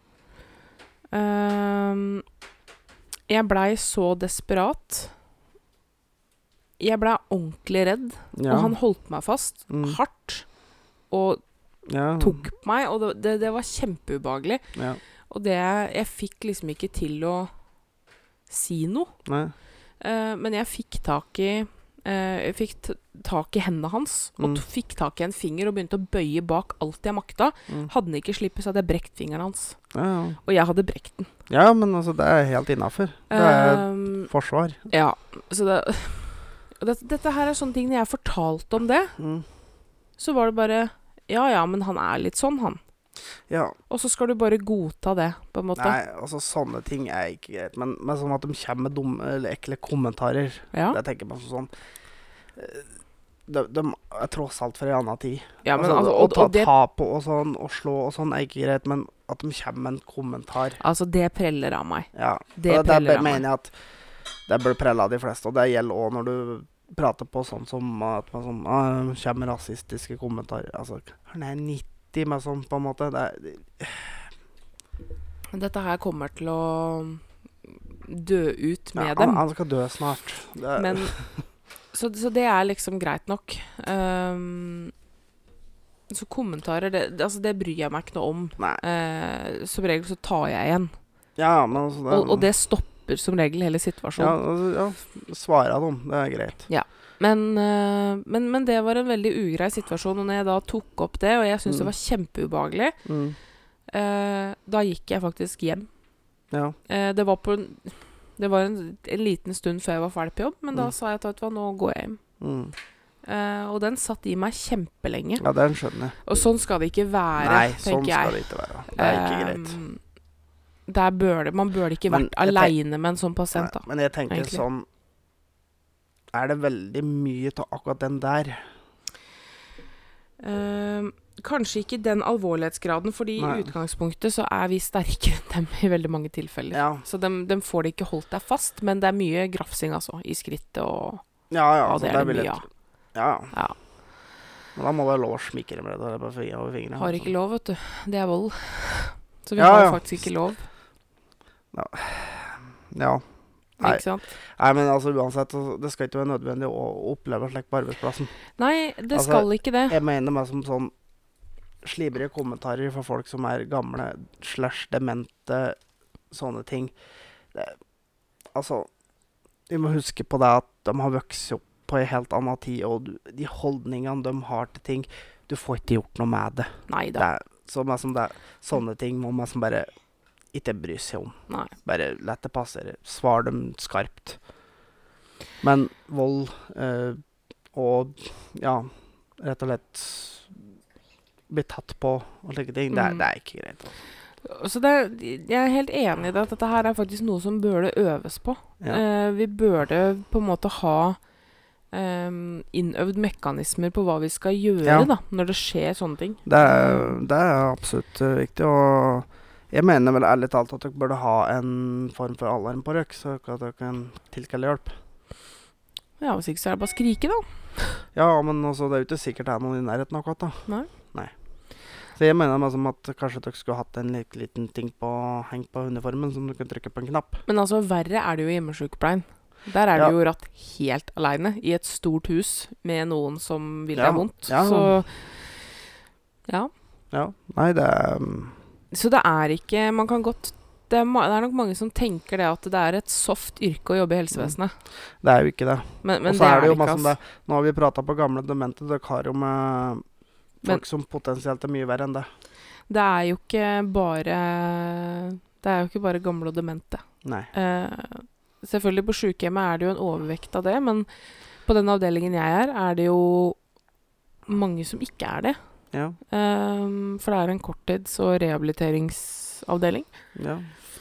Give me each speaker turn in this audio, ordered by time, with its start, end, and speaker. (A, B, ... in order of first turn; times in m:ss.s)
0:01.1-0:02.2 A
0:03.3-0:05.1 A
0:06.8-0:10.5 A
0:08.3-0:08.8 B
0:09.7-0:10.0 B
0:11.1-0:11.4 A
0:11.9-0:12.4 B
0:12.2-0:14.7 A
0:15.3-0:17.5 A
0:18.5-0:19.2 A
0:19.3-0:19.5 B
0:20.0-0:29.8 A
0:29.9-0:30.4 B
0:30.4-0:31.3 A
0:31.5-0:34.8 B
0:33.3-0:34.3 A
0:34.9-0:39.2 A
0:39.2-0:39.5 B
0:40.2-0:42.8 A
0:43.5-0:43.8 B
0:43.9-0:46.0 A
0:45.8-0:51.7 B
0:50.7-0:51.0 A
0:52.6-0:52.9 B
0:53.5-1:00.8 B
0:55.6-0:56.7 A
1:00.8-1:03.4 A
1:02.1-1:03.7 B
1:04.5-1:14.3 B
1:15.5-1:19.4 A
1:19.0-1:21.3 B
1:20.8-1:21.2 A
1:21.9-1:24.9 A
1:26.1-1:30.9 A
1:31.4-1:32.5 B
1:32.1-1:34.4 A
1:34.2-1:36.7 B
1:36.7-1:43.0 A
1:41.7-1:41.9 B
1:43.0-1:43.4 B
1:43.9-1:45.9 A
1:46.5-1:46.8 B
1:46.9-1:52.2 A
1:52.4-1:52.7 B
1:53.2-1:55.4 A
1:55.4-1:56.2 B
1:56.2-2:00.0 A
1:57.4-1:59.8 B
2:00.9-2:04.6 A
2:02.1-2:02.7 B
2:03.6-2:04.9 B
2:06.3-2:08.7 B
2:10.4-2:22.7 A
2:13.4-2:13.7 B
2:16.7-2:17.0 B
2:21.5-2:23.5 B
2:23.5-2:23.8 A
2:24.8-2:27.3 B
2:27.0-2:30.7 A
2:29.6-2:30.2 B
2:31.7-2:33.2 B
2:33.8-2:38.4 B
2:33.8-2:34.3 A
2:38.6-2:40.0 A
2:39.1-2:40.9 B
2:41.8-2:45.8 B
2:46.3-2:46.9 B
2:48.5-2:48.9 B
2:49.7-2:59.9 B
2:56.9-2:57.3 A
3:00.5-3:04.4 B
3:05.6-3:07.2 B
3:07.7-3:10.6 B
3:11.5-3:14.0 B
3:12.9-3:13.2 A
3:14.4-3:21.2 A
3:21.9-3:27.2 A
3:24.8-3:25.1 B
3:26.5-3:35.0 B
3:36.2-3:38.0 A
3:38.1-3:41.3 B
3:42.1-3:47.4 B
3:47.5-3:55.8 A
3:53.9-3:55.0 B
3:57.1-3:58.6 B
3:58.9-4:04.8 A
4:05.2-4:10.0 B
4:06.0-4:07.2 A
4:10.6-4:12.3 B
4:12.9-4:21.1 A
4:17.2-4:17.5 B
4:21.6-4:23.6 A
4:24.5-4:25.6 A
4:25.9-4:26.2 B
4:26.3-4:30.1 A
4:30.4-4:30.7 B